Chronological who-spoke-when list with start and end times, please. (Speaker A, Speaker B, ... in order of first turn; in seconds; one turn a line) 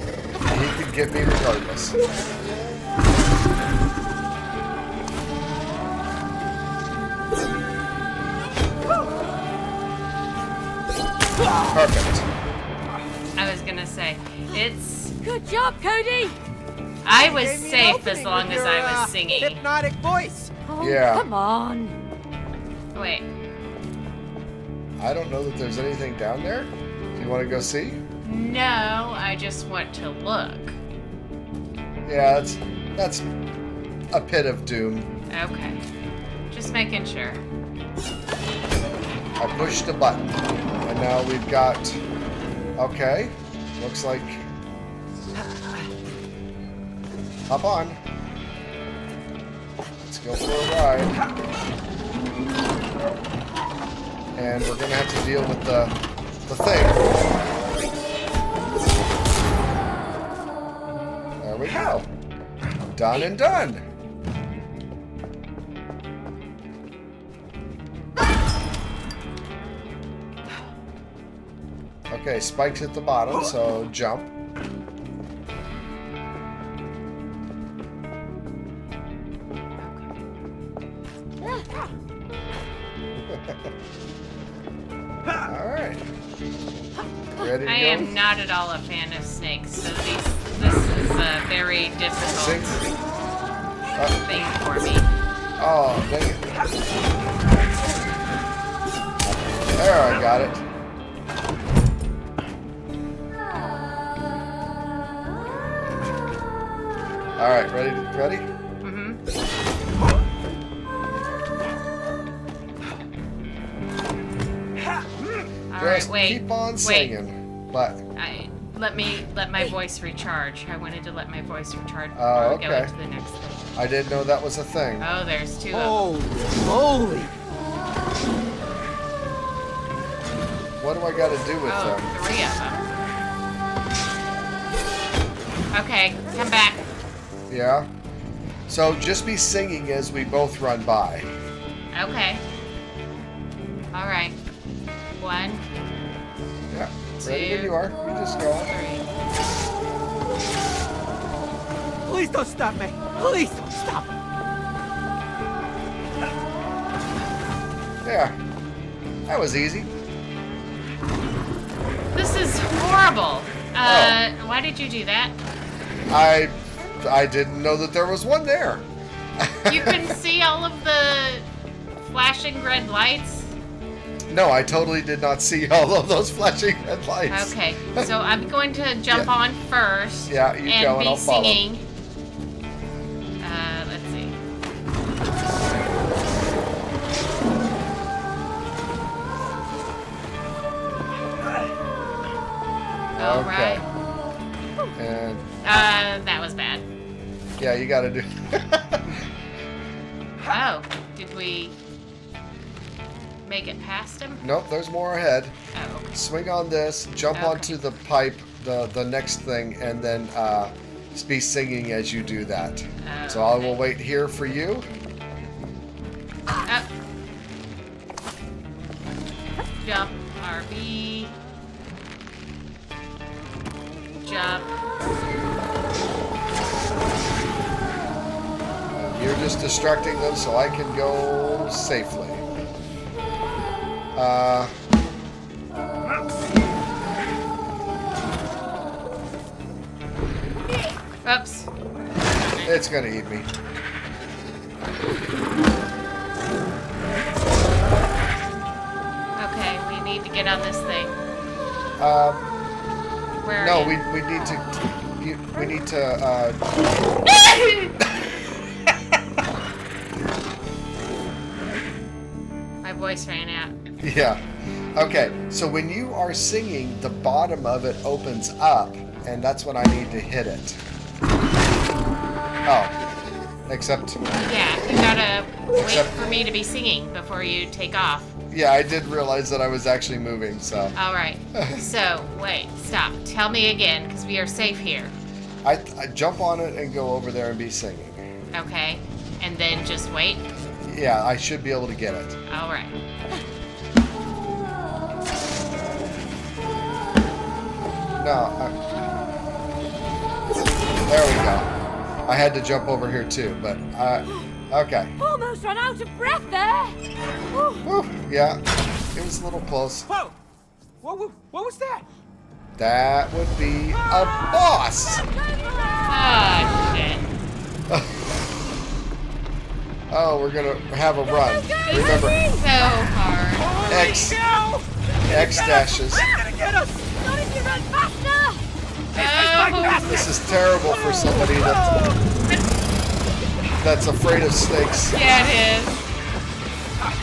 Speaker A: 0.4-1.9
Speaker A: 11.7-12.2
Speaker B: 13.3-15.2
Speaker C: 15.2-16.4
Speaker B: 17.0-19.6
Speaker D: 17.2-20.6
Speaker C: 20.6-21.9
Speaker A: 20.8-21.2
Speaker B: 22.9-23.3
Speaker A: 25.0-28.0
Speaker B: 28.2-30.8
Speaker A: 32.0-33.2
Speaker A: 34.1-35.1
Speaker B: 35.3-35.8
Speaker B: 36.5-37.4
Speaker A: 39.4-42.0
Speaker A: 42.8-44.4
Speaker A: 47.5-48.0
Speaker A: 50.0-51.2
Speaker A: 54.3-56.0
Speaker A: 56.5-57.1
Speaker A: 61.4-62.1
Speaker A: 62.9-63.8
Speaker A: 72.1-74.3
Speaker B: 79.8-80.2
Speaker A: 83.2-83.7
Speaker A: 85.4-86.0
Speaker A: 87.3-88.2
Speaker B: 87.6-92.8
Speaker A: 92.3-92.8
Speaker B: 94.2-95.1
Speaker A: 95.6-96.5
Speaker A: 99.7-100.6
Speaker A: 107.4-108.5
Speaker B: 108.8-109.2
Speaker B: 115.7-117.1
Speaker A: 115.8-118.0
Speaker B: 118.2-123.7
Speaker A: 122.1-122.9
Speaker A: 123.8-125.1
Speaker B: 125.0-126.0
Speaker D: 125.7-127.3
Speaker A: 130.8-132.1
Speaker B: 131.7-132.9
Speaker B: 135.7-136.9
Speaker A: 137.5-137.9
Speaker A: 138.7-141.3
Speaker B: 141.9-142.4
Speaker B: 143.9-144.4
Speaker B: 145.2-145.7
Speaker A: 146.7-148.7
Speaker B: 147.2-147.8
Speaker B: 148.7-149.0
Speaker D: 152.0-154.1
Speaker A: 158.0-158.3
Speaker A: 159.3-159.9
Speaker B: 162.1-165.4
Speaker A: 163.8-164.2
Speaker A: 166.1-168.9
Speaker A: 169.4-170.1
Speaker B: 169.7-171.5
Speaker B: 172.0-173.5
Speaker A: 174.3-178.1
Speaker B: 177.3-181.8
Speaker A: 180.3-181.6
Speaker B: 183.4-184.4
Speaker A: 193.2-193.8
Speaker B: 193.2-193.8
Speaker A: 194.9-195.4
Speaker B: 195.6-196.8
Speaker A: 197.6-199.2
Speaker B: 200.4-201.8
Speaker B: 203.4-204.4
Speaker A: 204.4-205.6
Speaker B: 205.7-206.1
Speaker A: 206.1-214.9
Speaker B: 207.3-207.8
Speaker B: 213.0-213.8
Speaker B: 219.8-221.3
Speaker B: 224.2-224.7
Speaker A: 228.9-232.4
Speaker A: 234.2-234.7
Speaker B: 241.2-241.7
Speaker B: 242.3-242.8
Speaker A: 242.6-243.5
Speaker B: 249.4-251.2
Speaker A: 252.0-252.5
Speaker B: 253.4-254.0
Speaker A: 253.6-256.6
Speaker B: 262.8-263.7
Speaker A: 264.0-264.4
Speaker A: 264.9-270.8
Speaker A: 272.6-272.9
Speaker A: 273.7-274.2
Speaker B: 274.3-278.3
Speaker A: 275.7-276.1
Speaker A: 278.5-280.9
Speaker B: 280.9-285.1
Speaker A: 281.5-281.9
Speaker A: 285.6-288.3
Speaker B: 288.5-290.5
Speaker A: 290.8-292.4
Speaker B: 292.5-292.9
Speaker A: 298.2-298.8
Speaker A: 301.1-301.7
Speaker A: 302.3-305.1
Speaker C: 305.2-307.0
Speaker C: 307.5-307.9
Speaker A: 307.8-308.6
Speaker A: 309.1-310.1
Speaker D: 310.1-310.3
Speaker D: 311.0-312.0
Speaker A: 312.8-315.3
Speaker C: 315.5-316.1
Speaker B: 316.1-317.3
Speaker A: 317.9-318.3
Speaker A: 320.1-322.5
Speaker C: 321.4-322.8
Speaker B: 321.9-323.9
Speaker D: 323.6-326.9
Speaker A: 323.9-324.4
Speaker A: 325.2-326.2
Speaker C: 327.0-328.6
Speaker B: 329.1-330.2
Speaker D: 329.1-330.4
Speaker A: 330.0-332.0
Speaker D: 330.9-332.2
Speaker A: 333.8-335.2
Speaker B: 335.1-336.1